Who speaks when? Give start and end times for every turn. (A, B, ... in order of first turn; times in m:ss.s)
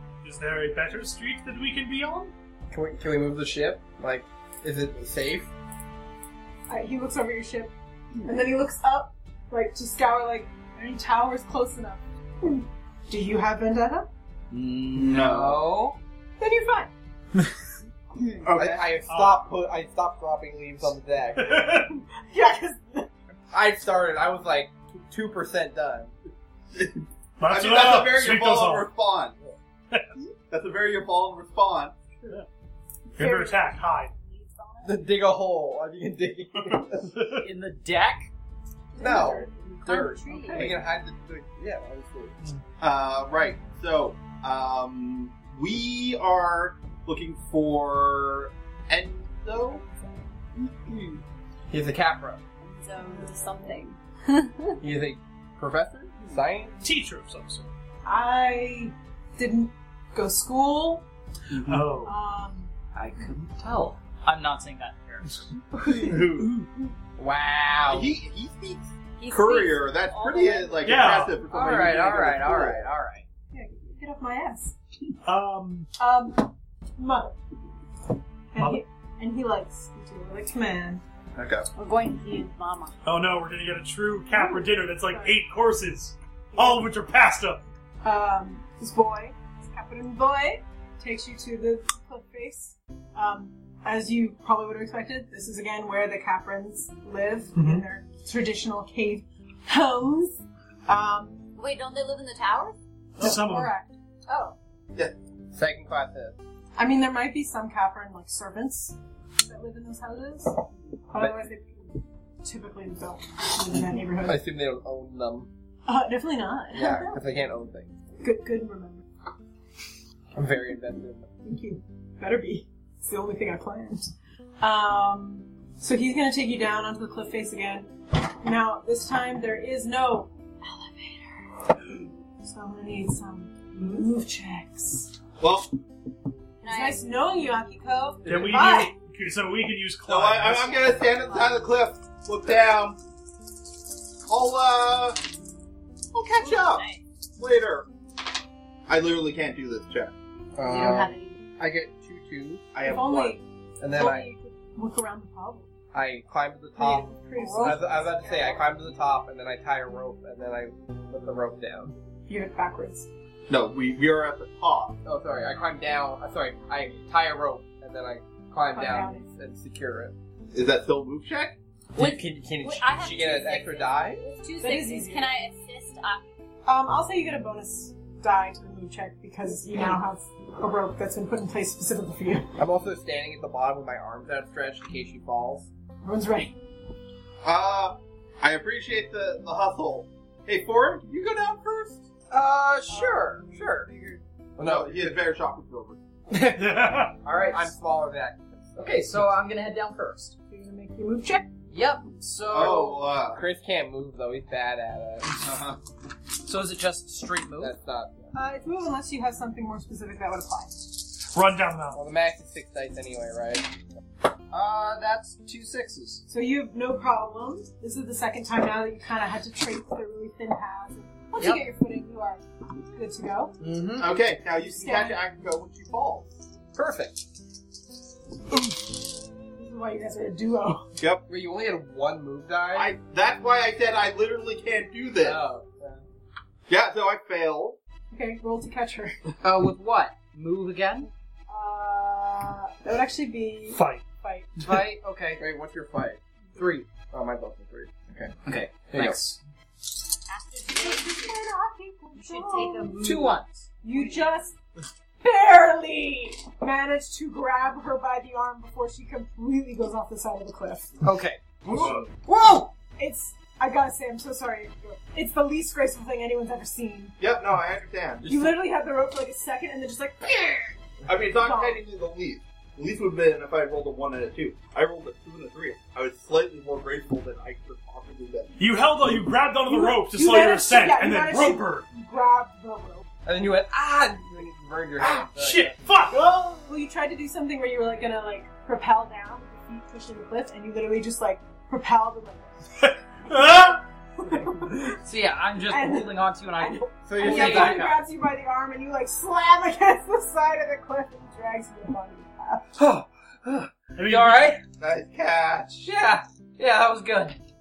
0:00.2-0:02.3 A
0:02.7-0:05.5 B
0:06.7-0:14.1 C
0:14.5-0:16.0 D
0:14.9-0:15.7 E
0:16.4-0:16.9 C
0:18.3-0:18.9 E
0:18.5-0:21.7 B
0:19.1-0:19.4 A
0:21.4-0:21.9 A
0:21.9-0:23.1 C
0:23.5-0:26.1 B
0:26.7-0:29.4 E
0:27.4-0:28.9 A
0:30.5-0:32.0 E
0:33.2-0:33.7 C
0:33.2-0:34.1 A
0:34.2-0:35.0 F
0:34.8-0:37.1 B
0:36.7-0:37.4 A
0:37.4-0:38.3 D
0:39.0-0:39.4 C
0:39.0-0:42.3 B
0:39.0-0:40.7 F
0:42.8-0:49.8 E
0:50.6-0:51.2 F
0:51.7-0:52.4 B
0:52.6-0:54.8 F
0:54.8-0:56.7 B
0:56.8-0:57.7 A
0:58.0-1:01.0 C
1:01.5-1:01.9 E
1:01.6-1:02.2 A
1:02.0-1:02.7 C
1:03.0-1:05.4 D
1:05.9-1:06.5 E
1:06.4-1:06.7 A
1:07.2-1:08.1 B
1:07.9-1:12.8 E
1:09.2-1:11.2 F
1:10.8-1:11.4 A
1:11.5-1:13.2 D
1:11.6-1:12.9 B
1:13.5-1:14.8 C
1:15.2-1:15.9 A
1:16.0-1:17.4 C
1:18.5-1:21.0 C
1:21.4-1:21.7 E
1:21.8-1:23.0 F
1:23.1-1:27.6 A
1:24.3-1:25.4 C
1:26.5-1:26.9 C
1:28.0-1:41.4 C
1:37.6-1:37.8 A
1:41.6-1:42.8 F
1:43.2-1:43.7 A
1:43.2-1:43.9 C
1:44.3-1:44.6 F
1:45.5-1:46.4 B
1:46.8-1:50.6 C
1:51.1-1:54.4 C
1:54.2-1:55.5 B
1:55.9-1:57.2 C
1:56.7-1:58.0 B
1:58.2-1:59.1 C
2:00.4-2:01.3 B
2:01.4-2:04.1 C
2:04.6-2:11.3 C
2:12.4-2:15.1 C
2:15.4-2:15.7 E
2:16.6-2:17.1 F
2:16.6-2:18.9 C
2:18.3-2:20.9 A
2:20.1-2:23.0 E
2:21.1-2:21.5 F
2:24.3-2:25.2 E
2:26.1-2:26.9 E
2:26.4-2:27.0 F
2:27.4-2:27.9 E
2:28.9-2:30.1 E
2:30.6-2:32.7 B
2:30.6-2:31.4 F
2:32.7-2:33.4 E
2:32.8-2:35.7 C
2:33.8-2:34.3 B
2:35.9-2:37.1 B
2:36.8-2:38.0 C
2:37.3-2:38.6 F
2:37.6-2:42.0 B
2:42.3-2:43.1 C
2:43.5-2:45.0 E
2:45.0-2:50.1 B
2:48.7-2:49.3 C
2:50.5-2:51.6 E
2:52.0-2:54.2 B
2:52.0-2:56.3 F
2:54.6-2:55.3 C
2:56.7-3:02.5 C
3:02.6-3:05.7 B
3:06.0-3:06.6 C
3:07.4-3:12.1 E
3:12.3-3:13.9 D
3:14.6-3:15.2 B
3:14.6-3:16.0 E
3:16.3-3:16.7 D
3:16.6-3:17.2 A
3:17.2-3:17.7 D
3:17.3-3:18.8 B
3:18.8-3:20.4 D
3:20.5-3:21.5 C
3:21.7-3:23.0 D
3:22.5-3:23.4 E
3:22.6-3:25.4 B
3:25.4-3:25.8 E
3:26.4-3:27.7 D
3:27.6-3:28.3 B
3:28.3-3:30.9 C
3:31.3-3:32.0 A
3:31.9-3:33.7 B
3:34.5-3:36.2 D
3:36.3-3:42.4 C
3:42.9-3:43.6 C
3:43.6-3:44.1 D
3:44.0-3:46.3 E
3:44.6-3:45.2 C
3:46.8-3:47.2 B
3:49.6-3:50.9 C
3:51.3-3:53.0 B
3:52.7-3:55.4 E
3:55.2-3:56.0 B
3:56.7-3:57.8 E
3:58.1-3:59.2 C
3:59.4-4:01.1 D
4:01.5-4:04.5 C
4:03.7-4:04.0 A
4:04.6-4:04.8 A
4:04.6-4:05.4 D
4:05.4-4:06.2 B
4:06.6-4:06.9 D
4:07.0-4:09.2 B
4:08.5-4:09.4 D
4:10.3-4:11.4 F
4:10.7-4:13.0 C
4:12.1-4:14.4 F
4:13.0-4:13.7 D
4:13.8-4:14.6 C
4:15.2-4:20.9 C
4:21.0-4:22.7 D
4:21.7-4:22.0 E
4:21.8-4:22.0 A
4:23.0-4:27.2 C
4:27.2-4:28.5 E
4:28.2-4:30.8 C
4:31.1-4:38.5 E
4:31.3-4:31.8 C
4:38.6-4:41.9 A
4:39.7-4:43.0 C
4:43.2-4:45.8 B
4:45.0-4:46.4 A
4:46.4-4:53.5 C
4:53.3-4:53.8 A
4:54.2-4:55.0 C
4:55.0-4:58.0 D
4:55.7-5:02.7 C
4:57.1-4:57.9 B
5:02.8-5:04.6 D
5:04.0-5:04.6 A
5:04.8-5:05.9 E
5:05.8-5:07.4 D